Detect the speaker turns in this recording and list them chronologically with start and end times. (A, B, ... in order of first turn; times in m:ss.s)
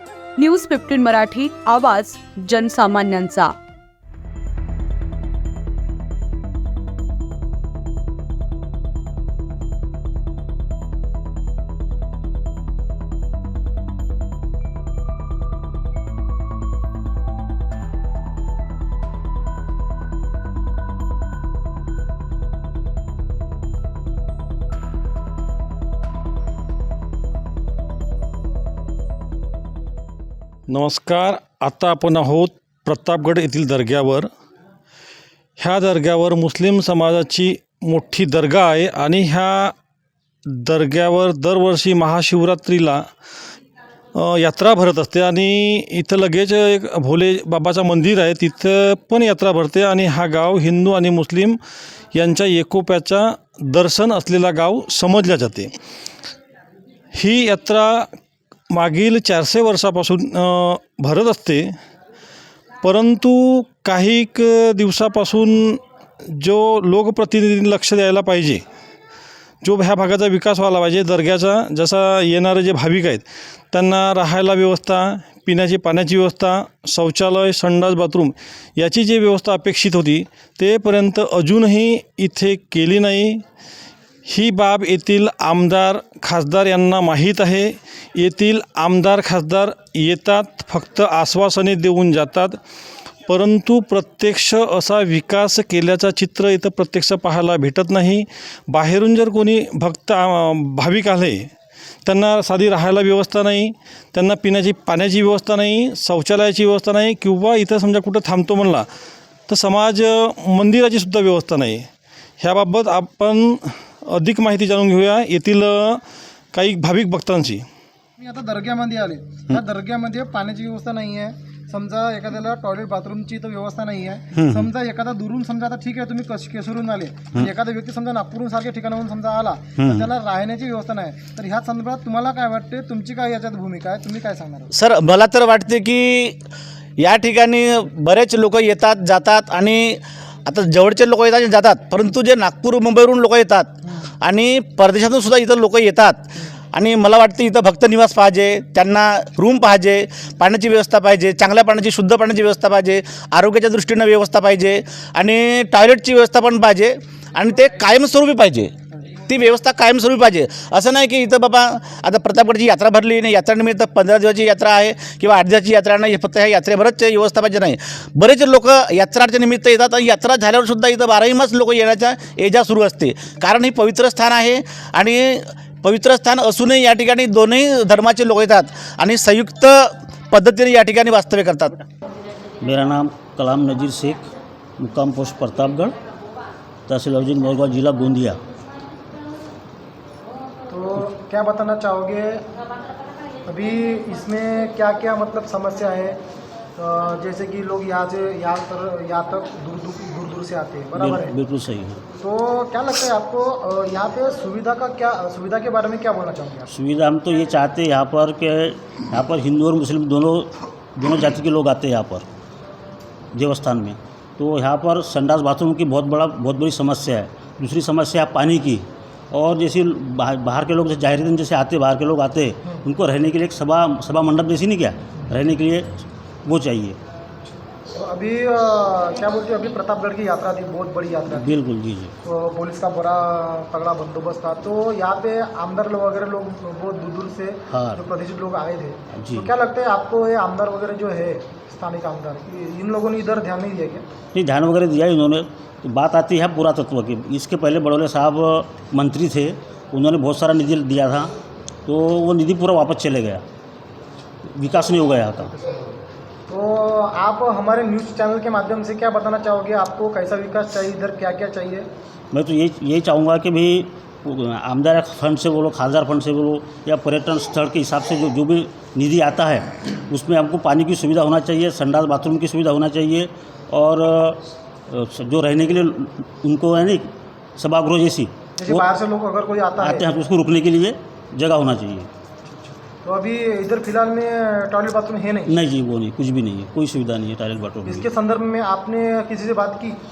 0:00.4-0:03.5 A
0:30.7-0:34.3 B
0:35.6-0:39.7 B
0:40.4-0:43.0 B
0:44.1-0:51.6 B
0:52.1-0:55.7 B
0:57.2-0:58.1 B
0:58.7-1:01.7 B
1:02.8-1:05.8 B
1:06.3-1:08.6 B
1:09.6-1:23.4 B
1:24.3-1:32.6 B
1:33.3-1:41.5 B
1:42.0-1:48.9 B
1:49.5-1:51.9 B
1:52.4-1:56.0 B
1:56.5-1:57.6 B
1:58.2-2:14.7 C
2:04.3-2:04.7 D
2:09.8-2:10.1 D
2:14.7-2:16.4 E
2:17.0-2:38.7 E
2:39.2-3:01.8 E
3:02.6-3:04.3 D
3:04.8-3:05.9 D
3:06.9-3:08.4 D
3:10.7-3:12.4 C
3:13.4-3:16.2 C
3:16.8-3:21.4 C
3:20.9-3:22.0 D
3:22.2-3:26.7 C
3:26.7-3:32.2 D
3:33.3-3:47.0 D
3:47.9-3:51.6 C
3:51.3-3:52.1 D
3:52.2-4:04.0 C
3:57.7-3:58.0 D
3:59.1-3:59.5 D
4:04.3-4:11.3 D
4:11.8-4:13.4 D
4:14.5-4:15.9 D
4:16.5-4:21.9 C
4:22.3-4:38.8 D
4:38.6-4:40.1 C
4:39.8-4:42.1 D
4:43.0-4:45.6 C
4:45.4-4:48.1 D
4:47.8-4:50.0 C